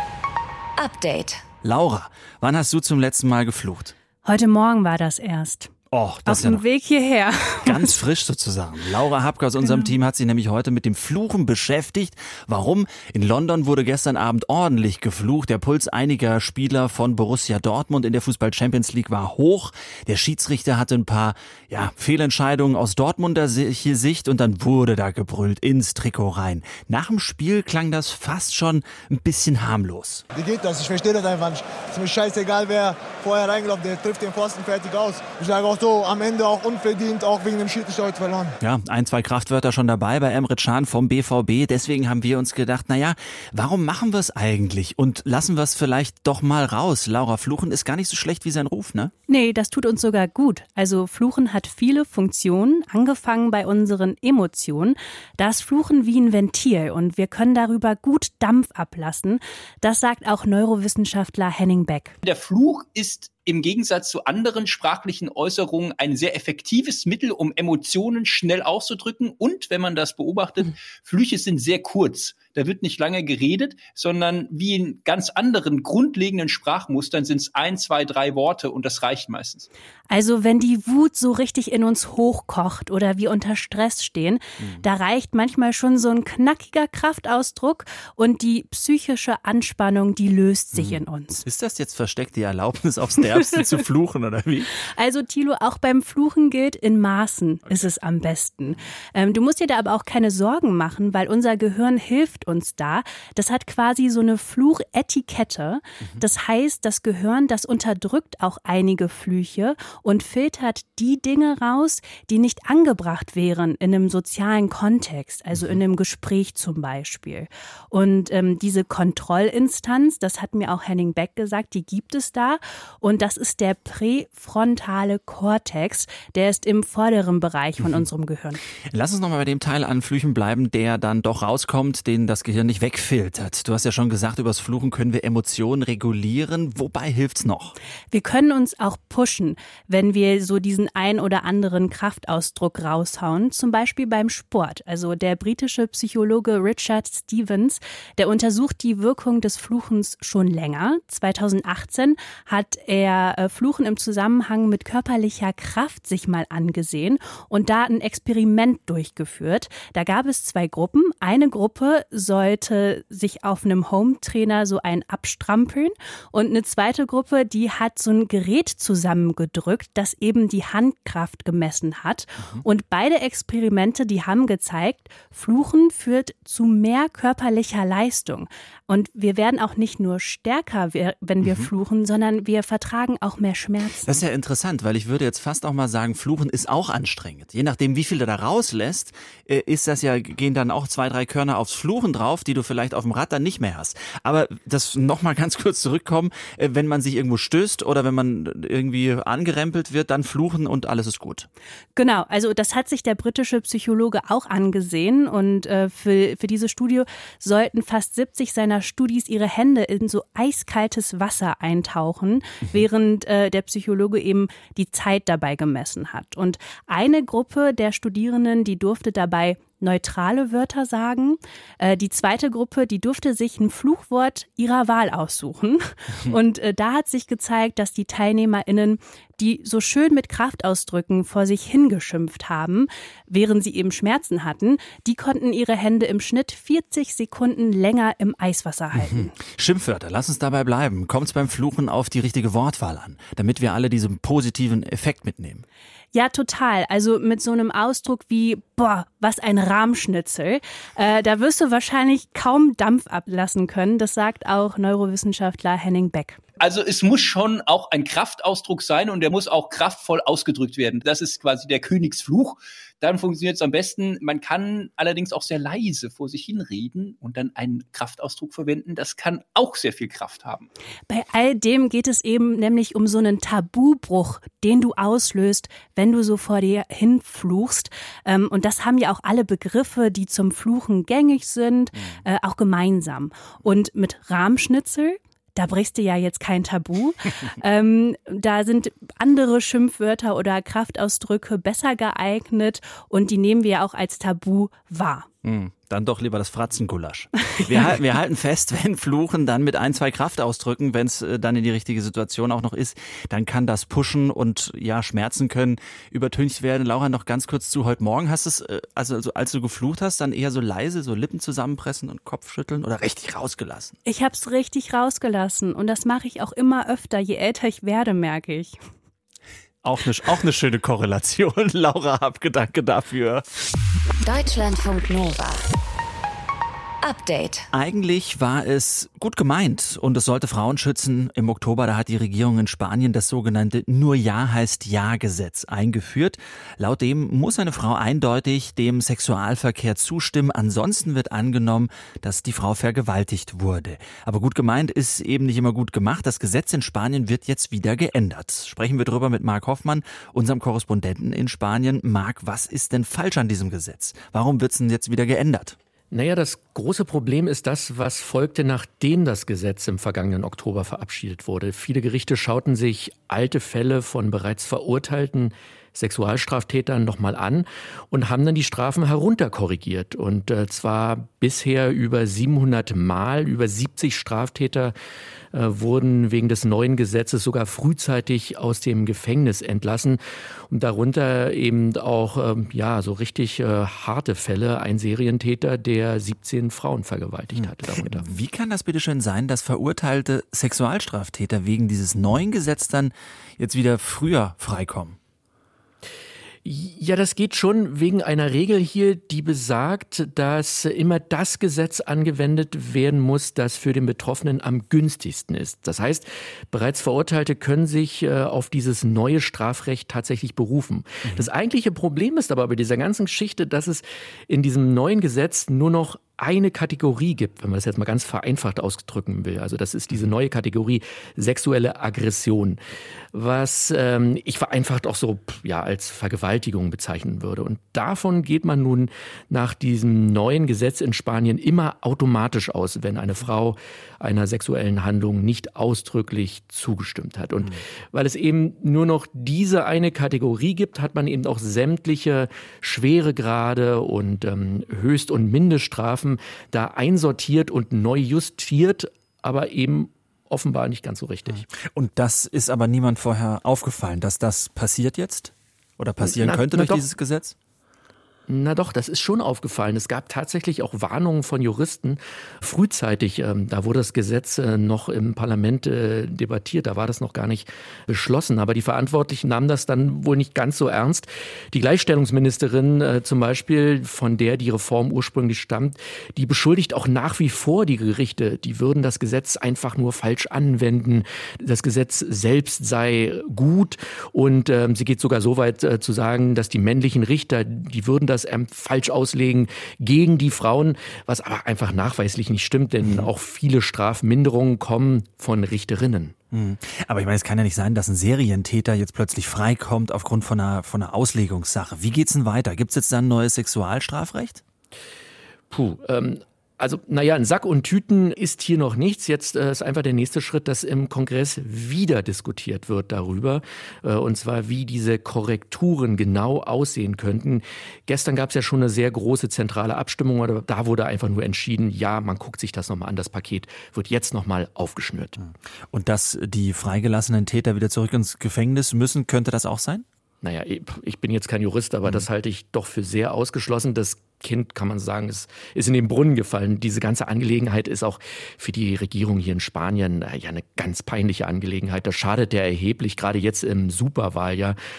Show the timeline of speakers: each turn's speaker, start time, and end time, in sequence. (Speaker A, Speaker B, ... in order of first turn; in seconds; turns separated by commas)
Speaker A: 0.8-1.4, Speaker B: 1.6-3.9, Speaker C: 4.2-5.7, Speaker B: 5.9-6.6, Speaker C: 6.3-8.0, Speaker B: 7.7-30.2, Speaker C: 9.6-9.9, Speaker D: 30.3-38.6, Speaker B: 38.6-49.1, Speaker C: 49.3-62.1, Speaker E: 62.2-79.7, Speaker C: 80.1-91.4, Speaker B: 90.8-94.7, Speaker C: 95.0-128.6, Speaker B: 128.9-137.8, Speaker C: 138.1-184.2, Speaker B: 181.4-181.7, Speaker B: 184.1-201.5, Speaker C: 201.9-239.3, Speaker B: 239.0-245.6, Speaker C: 246.1-256.4, Speaker E: 256.6-270.7, Speaker C: 271.1-295.3, Speaker B: 295.4-314.0, Speaker C: 314.1-318.8, Speaker B: 319.8-323.4, Speaker A: 324.2-325.6, Speaker A: 327.0-327.6, Speaker B: 327.7-355.8, Speaker F: 356.1-374.9, Speaker F: 375.5-388.4, Speaker B: 387.6-395.2, Speaker F: 396.6-422.8, Speaker F: 423.3-451.6, Speaker B: 451.5-457.6, Speaker F: 456.2-457.1, Speaker F: 458.5-496.3, Speaker B: 496.5-504.6, Speaker F: 505.7-525.4, Speaker B: 525.4-530.0, Speaker F: 530.4-544.8